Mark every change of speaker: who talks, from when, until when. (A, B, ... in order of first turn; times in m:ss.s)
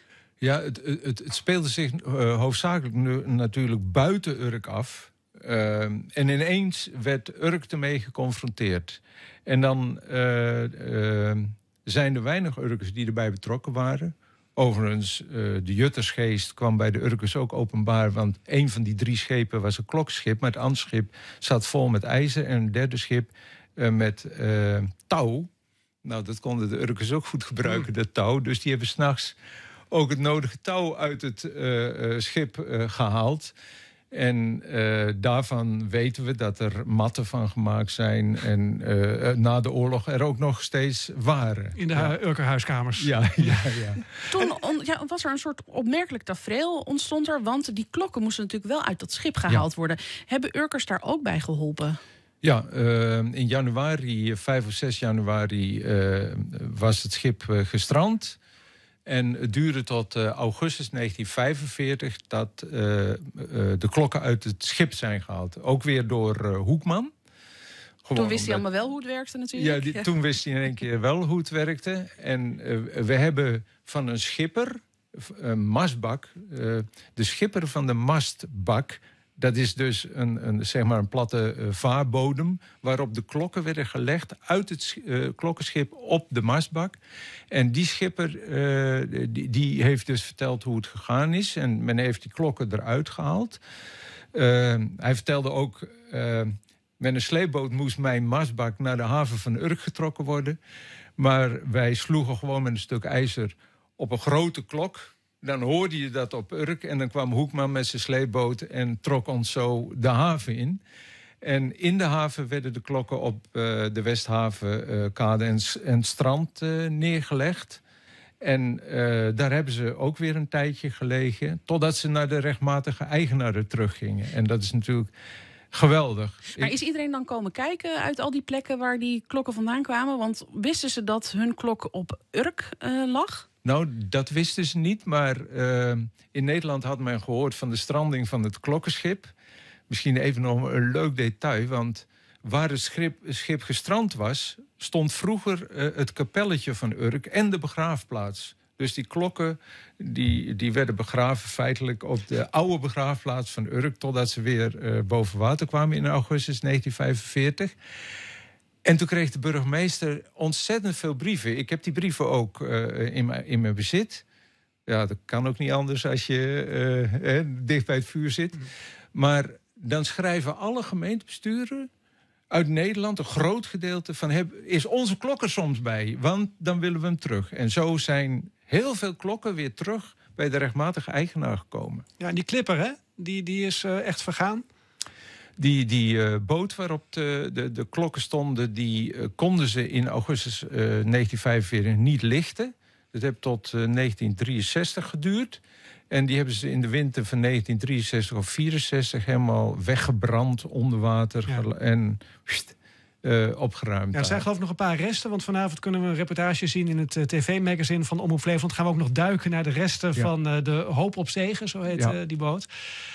0:00.4-0:25.5 A
0:26.0-0:29.4 A
0:29.9-0:33.5 A
0:34.1-0:42.2 A
0:41.8-0:43.7 B
0:43.0-0:44.1 A
0:44.2-0:52.0 C
0:52.4-0:58.4 A
0:59.1-1:07.1 A
1:08.0-1:08.6 A
1:08.1-1:10.1 C
1:09.5-1:27.0 A
1:27.5-1:33.6 A
1:34.3-1:40.6 A
1:41.2-1:50.8 A
1:51.4-1:57.8 A
1:58.4-2:05.1 A
2:05.7-2:06.8 A
2:06.6-2:13.4 C
2:13.6-2:19.3 A
2:19.9-2:37.7 A
2:38.8-2:44.2 A
2:44.9-2:51.9 A
2:52.5-3:02.0 A
3:02.2-3:04.7 B
3:05.6-3:24.5 A
3:24.1-3:32.7 B
3:31.9-3:32.2 A